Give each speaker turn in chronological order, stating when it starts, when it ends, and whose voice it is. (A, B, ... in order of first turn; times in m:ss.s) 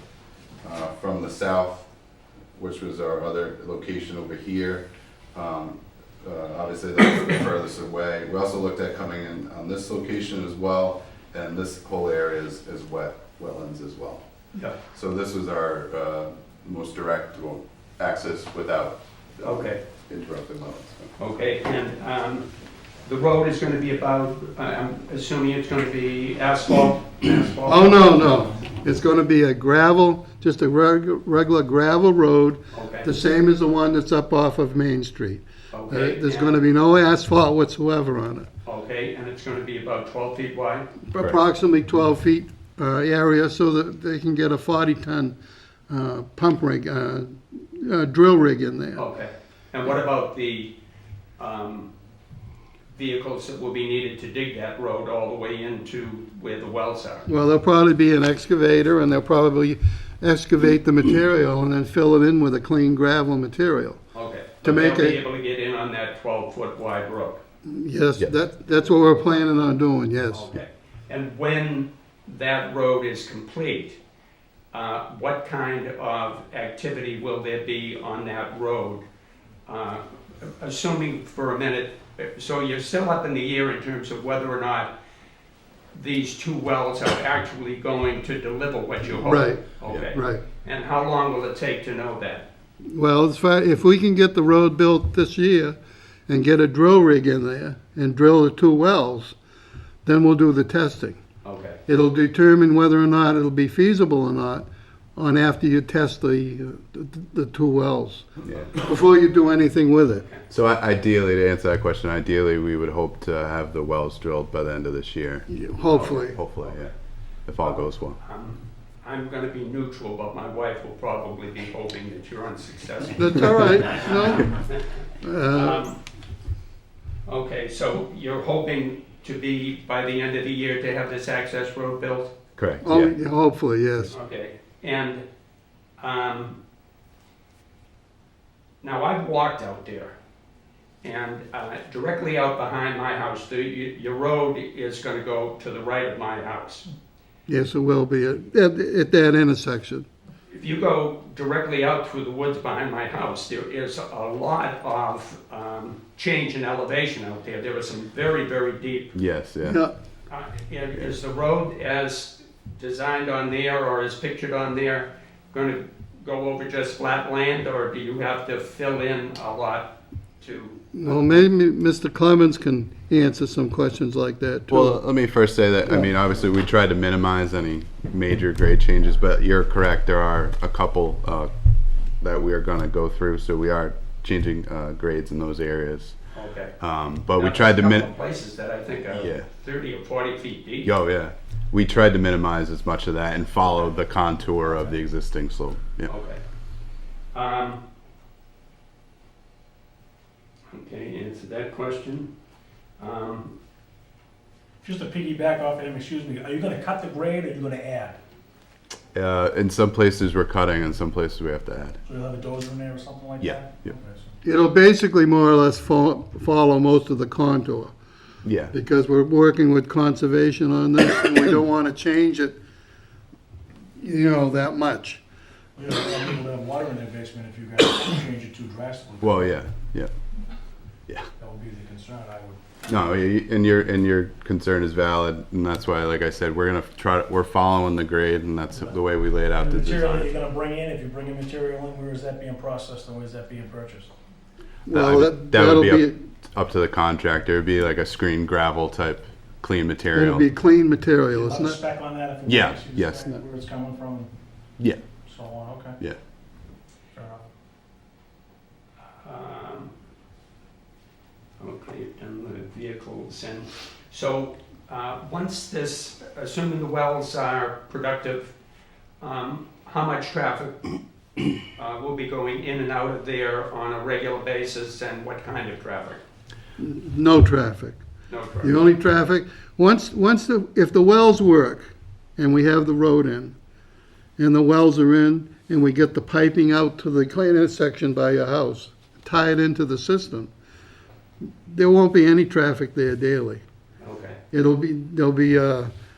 0:00.6-0:01.9 A
0:02.6-0:14.2 A
0:14.9-0:19.0 A
0:19.4-0:19.8 B
0:20.1-0:21.1 A
0:21.2-0:22.5 B
0:23.0-0:28.4 B
0:27.6-0:38.5 C
0:32.7-0:33.1 B
0:35.7-0:36.6 B
0:38.6-0:40.9 B
0:41.1-0:45.4 C
0:45.9-0:49.0 C
0:48.9-0:50.7 B
0:51.4-0:51.9 B
0:52.9-0:57.3 B
0:57.2-1:04.0 C
1:04.1-1:07.4 B
1:04.6-1:05.2 C
1:07.6-1:10.4 C
1:10.3-1:14.0 B
1:14.7-1:19.0 B
1:19.6-1:24.9 B
1:25.9-1:32.5 B
1:29.2-1:30.4 C
1:32.8-1:35.8 C
1:36.3-1:39.4 C
1:40.0-1:41.2 C
1:41.4-1:41.8 B
1:41.9-1:48.3 C
1:48.4-1:48.8 A
1:48.8-1:50.2 C
1:50.2-1:50.4 B
1:50.5-1:55.5 A
1:55.5-1:56.4 C
1:55.9-1:56.9 B
1:56.2-1:56.9 A
1:57.5-1:58.2 A
1:57.6-2:04.8 B
2:03.2-2:04.6 C
2:05.2-2:05.8 C
2:05.5-2:06.0 B
2:07.2-2:12.3 B
2:12.6-2:13.1 A
2:12.8-2:14.1 C
2:14.1-2:15.2 B
2:16.0-2:16.6 B
2:18.8-2:20.1 B
2:21.0-2:26.9 B
2:27.5-2:30.0 C
2:30.5-2:39.1 B
2:39.1-2:39.8 A
2:39.6-2:39.9 C
2:40.3-2:51.0 B
2:50.9-2:55.0 C
2:54.7-3:01.5 A
3:02.2-3:06.2 A
3:06.3-3:06.7 B
3:06.8-3:08.1 A
3:07.4-3:10.9 B
3:09.1-3:09.4 A
3:10.8-3:16.1 A
3:16.1-3:16.4 B
3:17.3-3:17.8 B
3:20.7-3:22.3 B
3:23.0-3:23.5 B
3:24.8-3:28.2 D
3:29.1-3:32.0 A
3:32.0-3:34.3 D
3:33.4-3:33.7 A
3:34.4-3:37.9 C
3:38.4-3:38.7 A
3:38.7-3:42.6 C
3:44.0-3:45.2 C
3:45.8-3:49.6 D
3:49.2-3:50.1 A
3:51.4-3:52.6 D
3:52.9-4:00.4 A
3:59.6-4:04.1 D
4:04.8-4:06.2 C
4:04.9-4:10.5 A
4:10.1-4:11.8 C
4:11.3-4:14.3 D
4:12.4-4:13.3 A
4:15.2-4:16.0 D
4:17.1-4:17.4 D
4:19.2-4:19.9 B
4:21.6-4:28.5 B
4:29.2-4:30.8 B
4:31.6-4:36.2 B
4:36.8-4:38.0 C
4:38.3-4:38.8 B
4:38.6-4:43.6 C
4:44.4-4:50.5 C
4:51.7-4:53.6 C
4:54.0-4:54.4 B
4:54.5-4:55.9 C